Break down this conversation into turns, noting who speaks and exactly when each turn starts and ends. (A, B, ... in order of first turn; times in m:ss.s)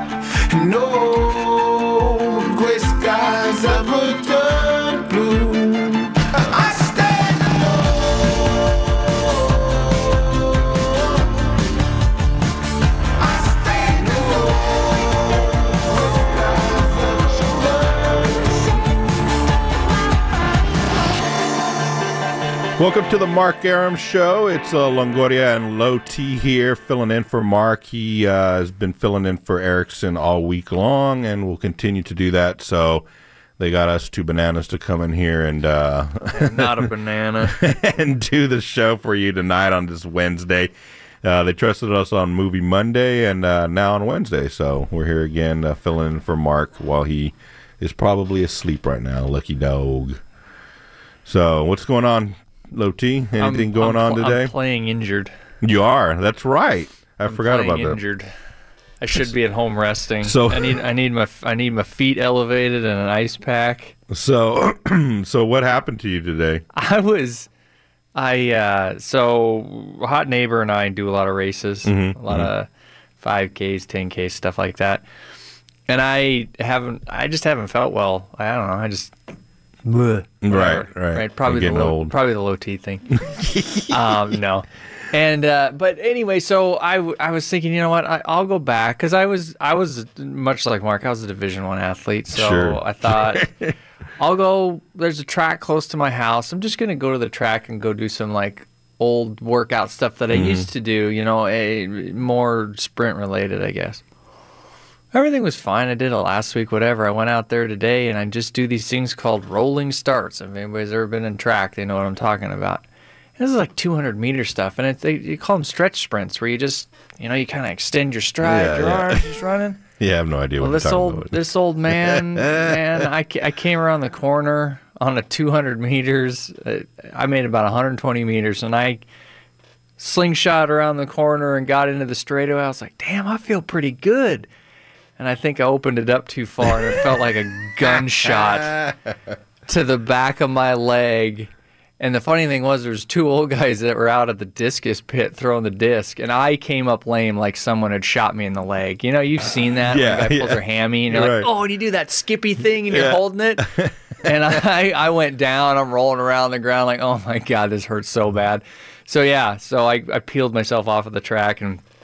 0:00.6-0:07.9 A
0:13.4-0:14.8 A
0:16.6-0:17.3 A
0:22.8-0:33.0 B
0:33.6-0:36.9 B
0:36.3-0:37.6 C
0:37.4-0:40.7 B
0:41.2-0:50.2 B
0:51.3-0:54.5 B
0:53.4-0:55.3 C
0:55.6-0:58.0 B
0:57.2-0:58.3 C
0:59.0-1:03.9 C
1:00.2-1:00.8 B
1:04.1-1:06.6 B
1:06.7-1:07.5 C
1:08.2-1:12.7 C
1:11.8-1:12.5 B
1:13.2-1:15.0 C
1:15.9-1:19.2 C
1:19.8-1:23.2 C
1:20.4-1:22.2 B
1:23.2-1:24.3 B
1:23.9-1:33.5 C
1:32.3-1:33.7 B
1:34.2-1:44.0 C
1:40.3-1:40.7 B
1:45.1-1:52.8 C
1:53.4-1:59.8 C
1:58.4-1:59.2 B
2:00.0-2:03.1 B
2:00.6-2:09.0 C
2:10.0-2:14.5 C
2:15.2-2:18.9 C
2:18.3-2:18.9 B
2:19.7-2:33.7 C
2:29.8-2:31.5 B
2:32.9-2:33.9 B
2:34.2-2:41.8 C